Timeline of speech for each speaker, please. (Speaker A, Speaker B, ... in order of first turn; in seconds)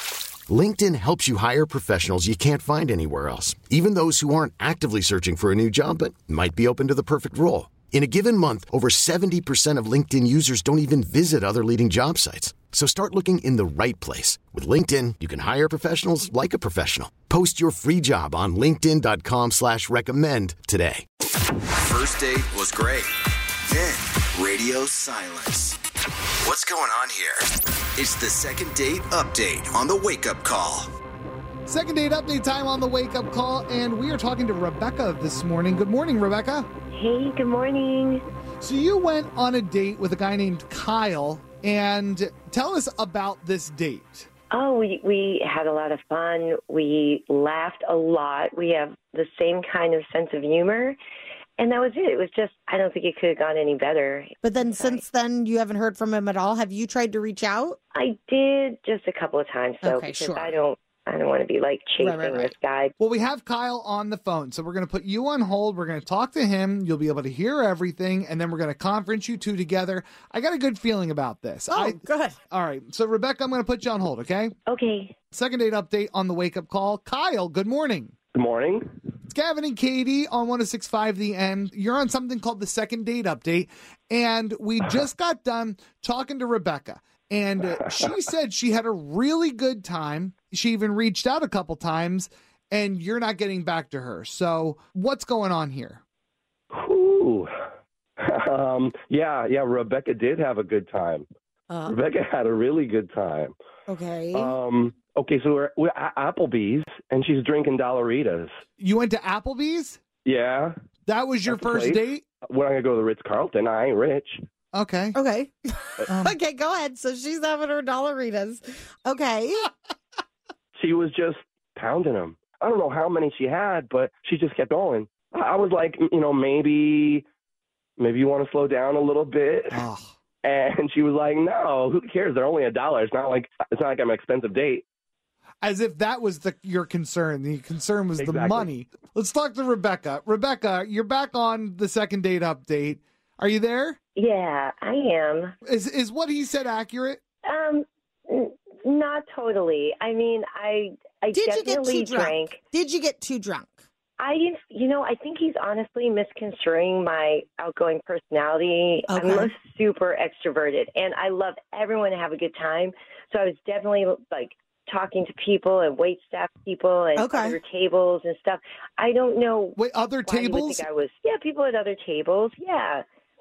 Speaker A: 0.5-21.1
Speaker B: 21.8-23.1, 23.7-25.7, 26.4-27.4, 28.0-30.9
Speaker C: 31.7-36.7, 38.6-44.3, 63.0-72.0, 72.5-74.5, 75.3-78.2, 79.3-96.0, 108.8-110.0, 111.1-112.2, 114.7-115.2, 116.1-116.3, 129.7-130.1, 135.6-144.0, 145.6-147.2, 169.8-170.9
Speaker D: 36.9-38.2, 44.5-51.0, 51.6-55.0, 58.0-62.9, 74.7-75.2, 144.2-145.5, 147.5-152.6, 154.2-173.0
Speaker E: 54.4-57.8, 59.8-60.6, 62.0-62.5, 71.7-72.4, 101.7-102.0, 103.9-104.6, 115.2-119.7, 151.3-153.8, 159.1-159.6, 167.2-167.6
Speaker F: 78.3-78.8, 87.7-88.0, 96.7-97.5, 98.2-101.3, 101.9-103.5, 104.3-108.5, 110.2-110.8, 111.5-114.4, 120.8-127.2, 128.0-129.8, 130.4-134.8, 138.2-138.7